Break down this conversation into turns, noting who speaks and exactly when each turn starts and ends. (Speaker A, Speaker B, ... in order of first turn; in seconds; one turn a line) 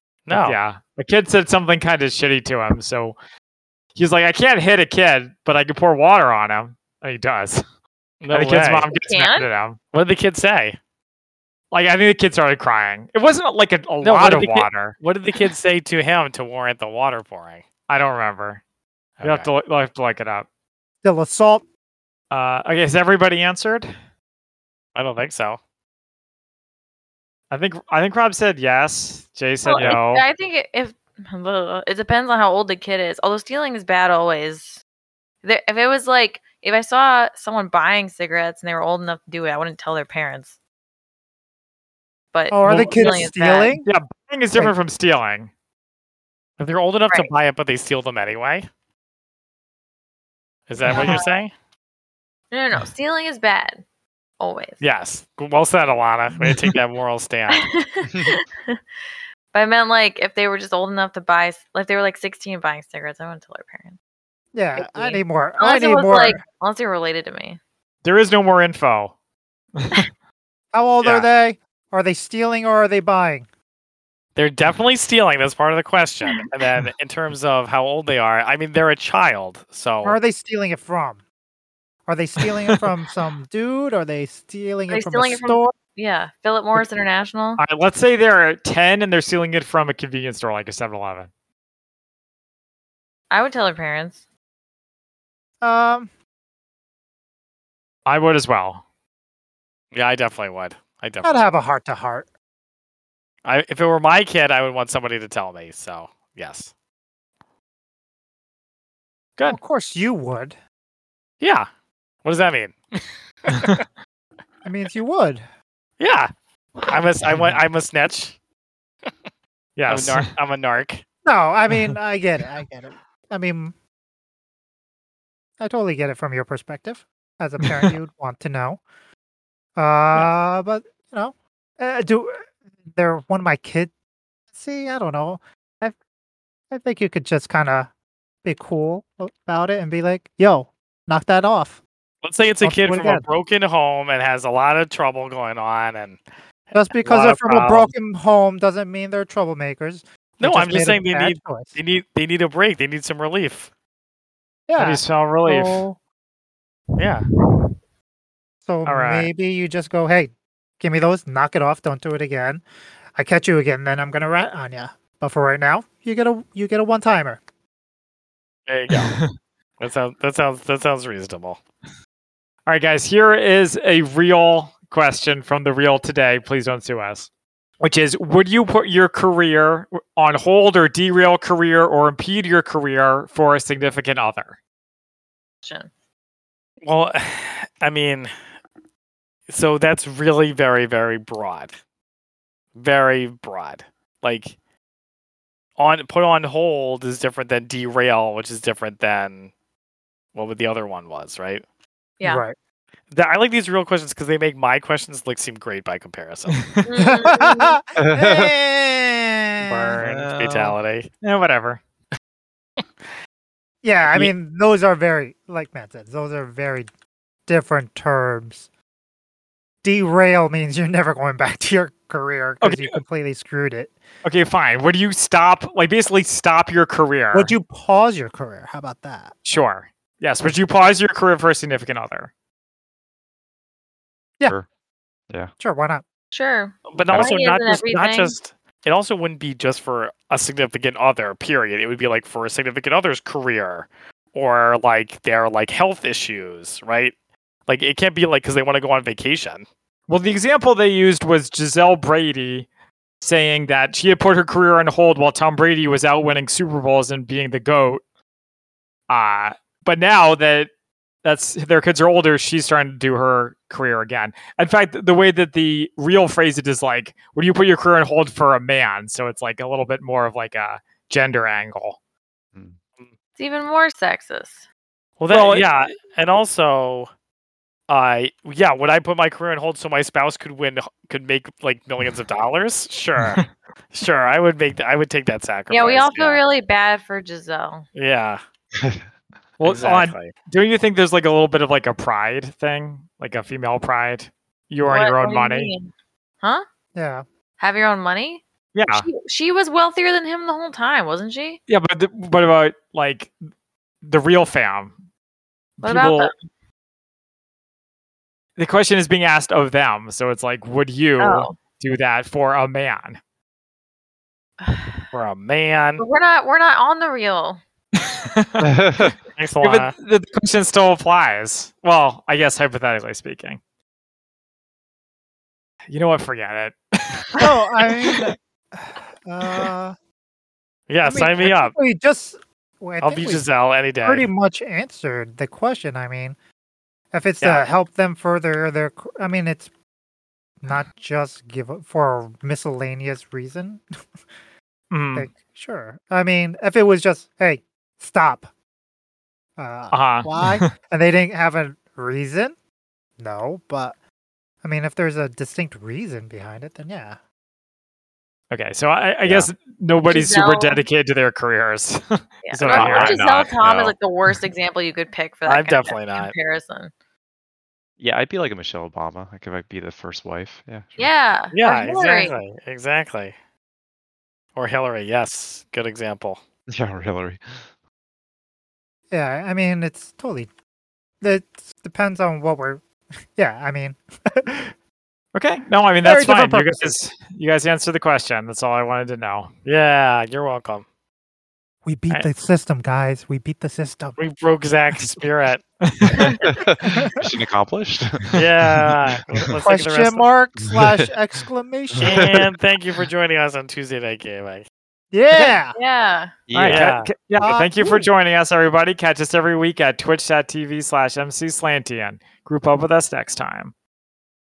Speaker A: 0.3-0.6
Speaker B: 0.3-3.2
Speaker B: 4.0-7.7
Speaker A: 8.2-8.9
Speaker B: 8.3-9.8
Speaker C: 8.9-9.5
Speaker A: 9.9-10.8
Speaker B: 11.7-15.0
Speaker A: 14.0-17.6
Speaker B: 17.9-18.6
Speaker A: 19.2-19.5
Speaker B: 19.2-20.5
Speaker D: 21.0-21.6
Speaker B: 22.3-23.9
Speaker A: 24.9-25.6
Speaker B: 27.5-30.2
Speaker C: 29.6-34.8
Speaker C: 35.4-40.5
Speaker C: 42.3-43.8
Speaker D: 42.5-43.9
Speaker B: 43.9-45.5
Speaker A: 46.6-48.7
Speaker A: 50.7-51.5
Speaker C: 50.9-51.3
Speaker C: 52.5-53.8
Speaker C: 54.4-54.8
Speaker A: 54.8-57.7
Speaker B: 56.4-56.7
Speaker C: 57.5-58.8
Speaker C: 59.5-64.0
Speaker D: 64.5-66.4
Speaker C: 64.8-67.6
Speaker B: 68.0-69.1
Speaker B: 69.8-70.0
Speaker D: 70.7-73.5
Speaker A: 71.0-71.3
Speaker A: 74.4-80.2
Speaker D: 80.0-81.2
Speaker D: 82.1-85.8
Speaker C: 84.9-87.6
Speaker B: 87.6-91.3
Speaker C: 93.3-94.2
Speaker D: 95.6-96.1
Speaker B: 98.1-98.8
Speaker A: 99.9-101.4
Speaker D: 101.2-102.3
Speaker A: 103.5-106.7
Speaker D: 109.5-110.6
Speaker A: 111.4-111.7
Speaker A: 112.2-113.8
Speaker D: 114.6-115.5
Speaker A: 116.0-116.3
Speaker A: 116.9-118.4
Speaker B: 119.8-120.3
Speaker A: 119.9-121.0
Speaker D: 121.2-123.8
Speaker D: 125.6-128.8
Speaker D: 129.8-133.9
Speaker D: 134.5-136.0
Speaker D: 136.7-137.9
Speaker D: 138.4-141.8
Speaker A: 142.2-146.2
Speaker D: 142.6-143.3
Speaker D: 146.7-151.8
Speaker A: 147.1-147.8
Speaker B: 147.4-147.8
Speaker A: 150.4-153.7
Speaker D: 154.7-156.0
Speaker B: 154.8-155.8
Speaker A: 157.0-157.2
Speaker D: 158.7-162.6
Speaker B: 158.8-159.3
Speaker D: 163.2-167.4
Speaker A: 168.7-169.2
Speaker B: 168.9-169.3
Speaker A: 169.8-171.6
Speaker B: 172.7-177.3
Speaker B: 177.8-184.6
Speaker C: 185.6-185.9
Speaker A: 186.8-188.3
Speaker A: 189.5-191.7
Speaker A: 192.8-194.6
Speaker A: 195.8-199.5
Speaker A: 200.3-201.6
Speaker D: 202.2-202.6
Speaker A: 203.1-206.6
Speaker B: 206.5-206.8
Speaker C: 206.8-207.8
Speaker D: 207.0-210.0
Speaker E: 208.0-208.5
Speaker A: 209.6-211.1
Speaker E: 210.0-210.8
Speaker B: 211.2-211.8
Speaker D: 213.8-216.9
Speaker D: 217.5-218.7
Speaker D: 219.8-223.9
Speaker B: 222.6-223.0
Speaker B: 224.2-227.5
Speaker D: 227.3-229.3
Speaker B: 229.4-232.3
Speaker D: 235.6-236.0
Speaker C: 236.3-238.3
Speaker A: 236.9-247.1
Speaker A: 247.7-249.7
Speaker B: 250.1-252.7
Speaker B: 253.2-258.0
Speaker B: 259.1-260.7
Speaker B: 261.2-272.0
Speaker C: 273.4-274.6
Speaker A: 275.2-277.1
Speaker B: 275.3-275.7
Speaker A: 277.9-286.4
Speaker C: 285.7-287.9
Speaker A: 287.9-288.4
Speaker E: 288.8-289.1
Speaker B: 289.6-295.7
Speaker A: 289.6-290.3
Speaker C: 294.9-296.6
Speaker D: 296.9-297.3
Speaker C: 297.6-301.6
Speaker B: 298.8-299.1
Speaker B: 301.7-303.3
Speaker B: 304.0-305.0
Speaker B: 305.8-306.3
Speaker C: 305.8-306.3
Speaker B: 308.6-313.2
Speaker C: 311.2-311.5
Speaker C: 314.6-315.1
Speaker A: 315.1-316.0
Speaker C: 316.0-317.6
Speaker B: 317.9-318.7
Speaker E: 318.6-319.2
Speaker A: 319.4-319.9
Speaker B: 319.6-323.6
Speaker B: 325.9-328.3
Speaker D: 327.4-330.0
Speaker A: 330.9-331.7
Speaker D: 331.0-333.5
Speaker A: 333.0-334.3
Speaker D: 334.0-336.4
Speaker D: 337.1-339.7
Speaker D: 340.6-343.8
Speaker B: 344.9-345.3
Speaker D: 345.1-348.5
Speaker D: 349.6-352.6
Speaker B: 349.9-350.7
Speaker D: 353.2-353.9
Speaker D: 354.6-357.2
Speaker B: 358.5-363.2
Speaker E: 359.2-359.5
Speaker C: 360.1-360.8
Speaker C: 362.4-366.9
Speaker E: 362.7-363.9
Speaker A: 365.4-366.3
Speaker E: 368.0-371.1
Speaker C: 371.0-372.4
Speaker A: 371.5-373.4
Speaker A: 374.6-376.4
Speaker E: 376.7-377.6
Speaker D: 379.1-380.5
Speaker D: 381.2-384.7
Speaker B: 385.4-389.5
Speaker D: 386.0-387.0
Speaker A: 389.6-390.9
Speaker D: 391.9-394.2
Speaker A: 394.2-395.6
Speaker B: 395.8-396.2
Speaker E: 396.1-398.4
Speaker C: 396.2-396.4
Speaker D: 396.8-397.3
Speaker A: 398.4-400.3
Speaker E: 399.2-399.4
Speaker D: 399.6-402.3
Speaker E: 400.6-401.1
Speaker E: 401.9-402.4
Speaker A: 402.0-404.7
Speaker D: 405.1-405.8
Speaker C: 405.4-406.3
Speaker E: 406.5-406.9
Speaker B: 406.5-413.7
Speaker A: 406.6-407.1
Speaker D: 407.4-408.1